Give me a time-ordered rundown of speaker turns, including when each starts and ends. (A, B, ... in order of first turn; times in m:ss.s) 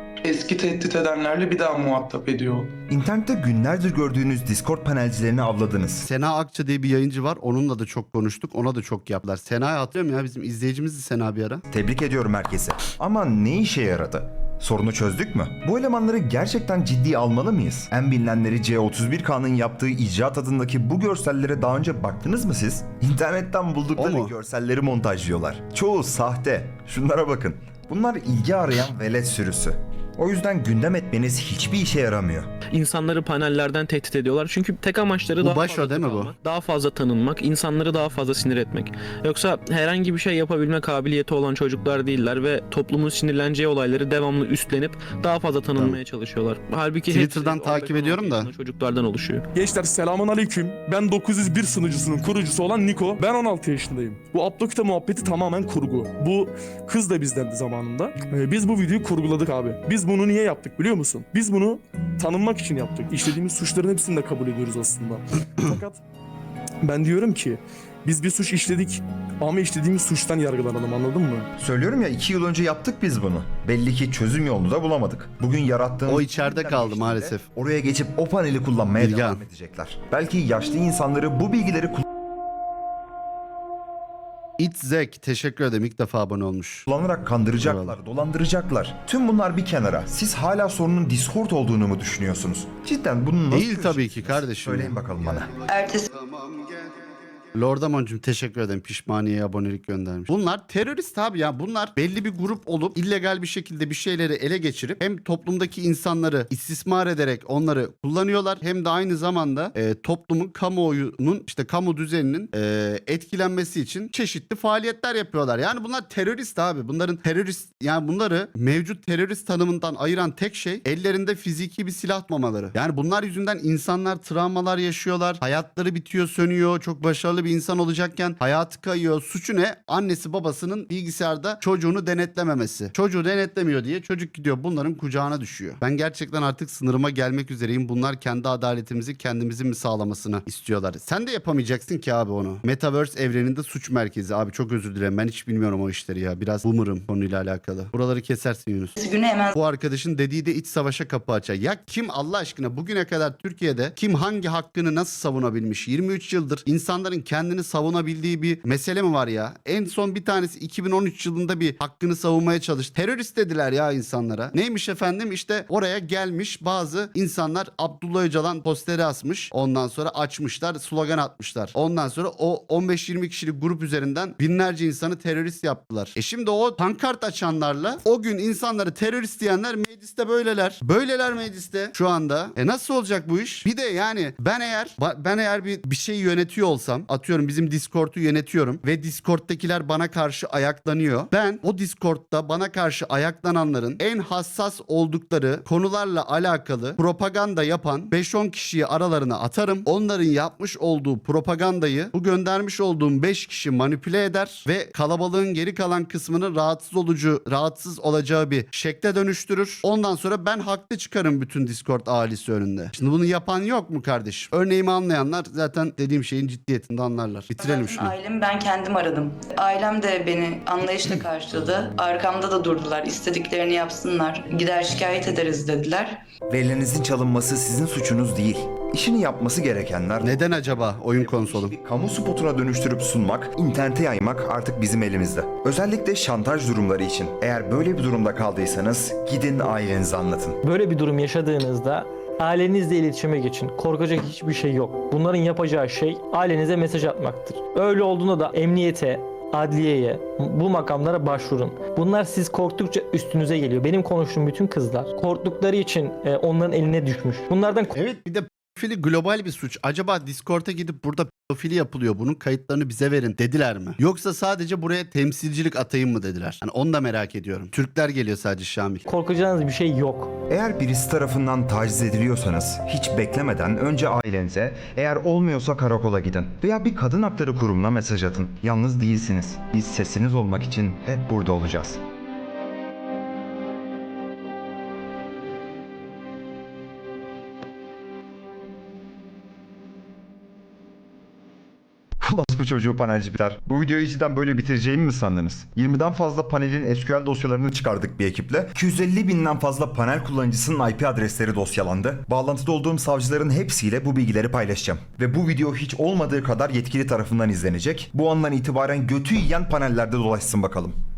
0:00.2-0:02.7 A
0:02.9-0:06.1 B
0:06.0-0:11.6 C
0:11.7-0:32.5 B
0:24.0-0:24.3 C
0:32.7-0:49.4 D
0:35.4-0:36.3 C
0:45.7-0:46.0 C
0:47.1-0:48.5 C
0:49.5-1:06.0 E
1:06.8-1:11.5 E
1:11.6-1:22.0 B
1:16.0-1:17.4 C
1:19.0-1:19.4 C
1:24.6-1:26.9 C
1:26.9-1:35.5 B
1:27.6-1:27.9 C
1:33.5-1:37.0 C
1:35.7-1:36.1 F
1:37.5-2:29.0 C
2:29.0-2:29.5 F
2:29.5-3:38.2 C
3:37.6-3:46.2 F
3:46.5-3:50.4 B
3:50.2-3:51.7 C
3:51.2-4:00.6 B
4:00.6-4:17.9 G
4:17.9-4:29.0 C
4:29.0-4:30.3 G
4:30.5-4:42.0 B
4:52.2-5:11.0 B